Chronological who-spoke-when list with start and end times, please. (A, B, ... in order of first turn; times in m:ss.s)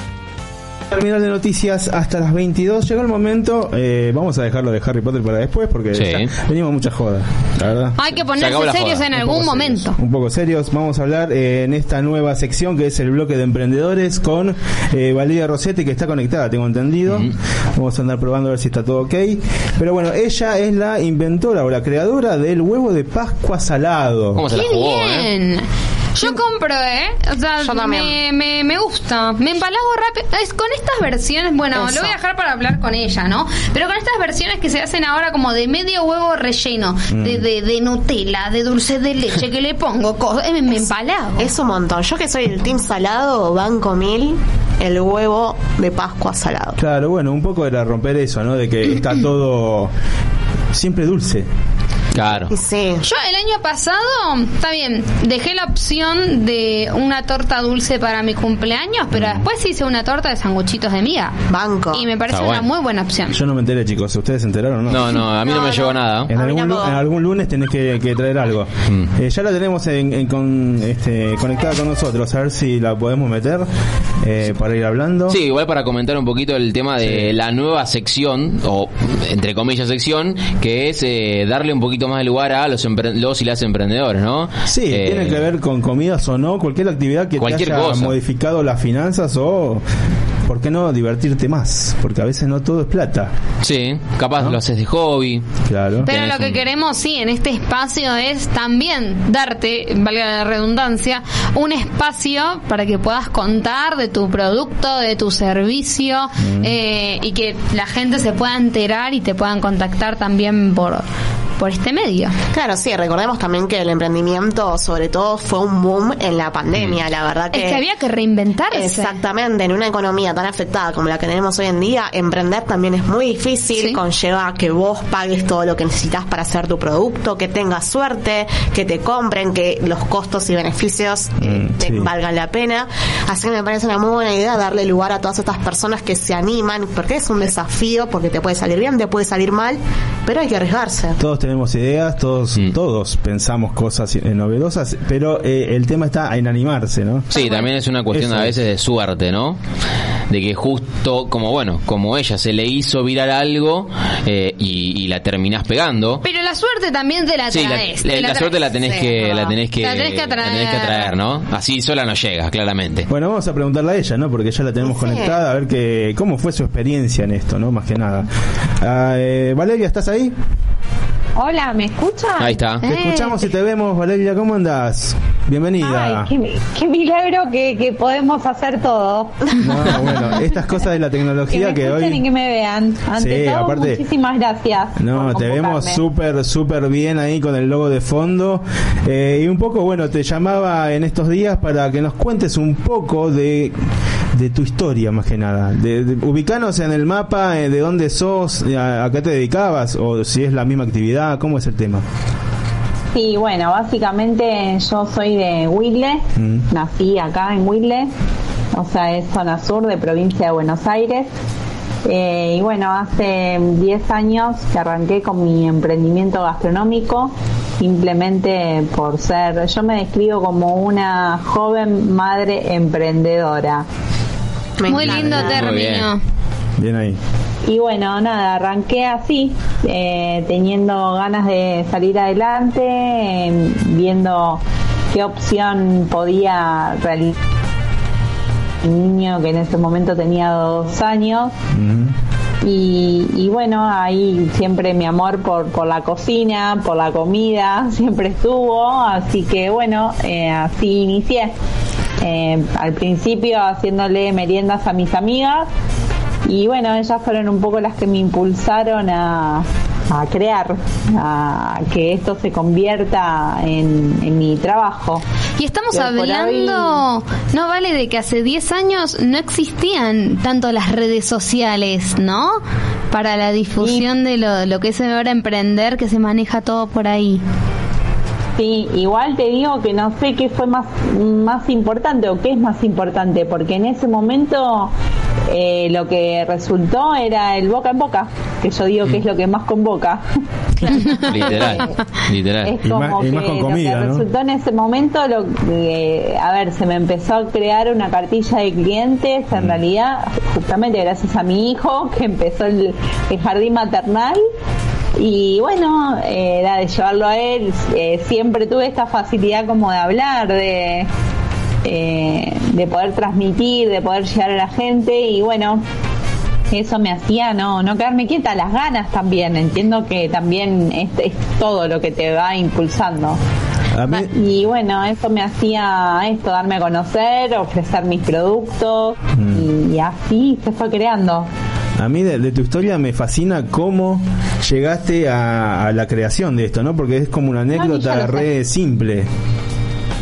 0:00.9-0:08.0 A
0:05.9-0:06.3 B
0:08.0-0:10.0 C
0:08.4-0:09.1 B
0:09.1-0:24.4 A
0:17.1-0:17.3 B
0:24.4-0:25.3 B
0:24.5-0:41.5 C
0:27.6-0:28.2 D
0:31.7-0:32.2 D
0:37.1-0:37.4 A
0:41.4-0:46.8 D
0:46.8-0:49.9 A
0:50.7-0:51.5 A
0:52.1-0:52.5 B
0:52.2-0:52.4 A
0:52.5-0:53.0 D
0:53.0-1:01.4 C
1:01.5-1:02.1 D
1:01.9-1:03.4 C
1:02.3-1:02.7 B
1:03.3-1:05.2 A
1:04.9-1:06.3 B
1:05.4-1:07.0 D
1:06.3-1:13.7 A
1:14.2-1:15.4 A
1:15.3-1:25.4 B
1:17.0-1:17.3 A
1:24.7-1:29.8 A
1:27.4-1:28.1 B
1:30.4-1:33.3 A
1:33.6-1:35.4 B
1:35.6-1:36.1 A
1:36.0-1:51.0 C
1:36.1-1:36.6 B
1:46.4-1:46.7 A
1:51.6-1:52.4 C
1:52.5-1:57.8 D
1:57.5-1:59.2 C
1:58.7-2:21.2 D
2:11.4-2:12.1 A
2:21.2-2:27.3 A
2:27.3-2:27.7 C
2:27.3-2:29.6 B
2:28.1-2:28.6 A
2:30.3-2:36.2 B
2:36.2-2:38.6 C
2:37.5-2:43.1 B
2:38.8-2:39.6 D
2:39.8-2:41.1 C
2:43.1-2:48.3 A
2:44.8-2:45.4 D
2:48.8-2:50.4 A
2:51.4-2:52.6 E
2:52.4-2:52.8 B
2:52.8-2:53.3 C
2:52.8-2:56.3 A
2:55.8-3:00.4 E
2:59.6-3:02.2 A
3:01.5-3:06.0 E
3:03.2-3:04.0 A
3:05.0-3:13.8 A
3:14.3-3:22.0 A
3:23.1-3:28.1 E
3:26.4-3:26.7 A
3:28.7-3:31.3 E
3:32.0-3:43.8 E
3:44.8-3:45.6 D
3:44.9-3:46.2 C
3:45.0-3:46.1 B
3:46.8-3:47.2 A
3:47.6-3:57.3 E
3:58.8-4:01.5 E
4:01.7-4:02.1 A
4:02.6-4:11.5 E
4:12.2-4:15.7 E
4:16.5-4:25.2 E
4:25.6-4:32.6 C
4:25.9-4:27.0 E
4:33.1-4:37.4 C
4:33.8-4:34.1 E
4:38.6-4:44.9 E
4:45.5-4:50.2 E
4:50.9-4:51.8 D
4:51.0-4:51.3 C
4:51.3-4:52.8 B
4:52.6-5:04.4 E
4:52.8-4:54.2 A
4:59.5-4:59.8 A
5:05.2-5:11.1 E
5:11.8-5:15.8 E
5:16.7-5:23.4 E
5:23.9-5:24.3 A
5:24.2-5:31.5 E
5:29.3-5:29.7 A
5:32.0-5:39.3 A
5:37.7-5:38.5 E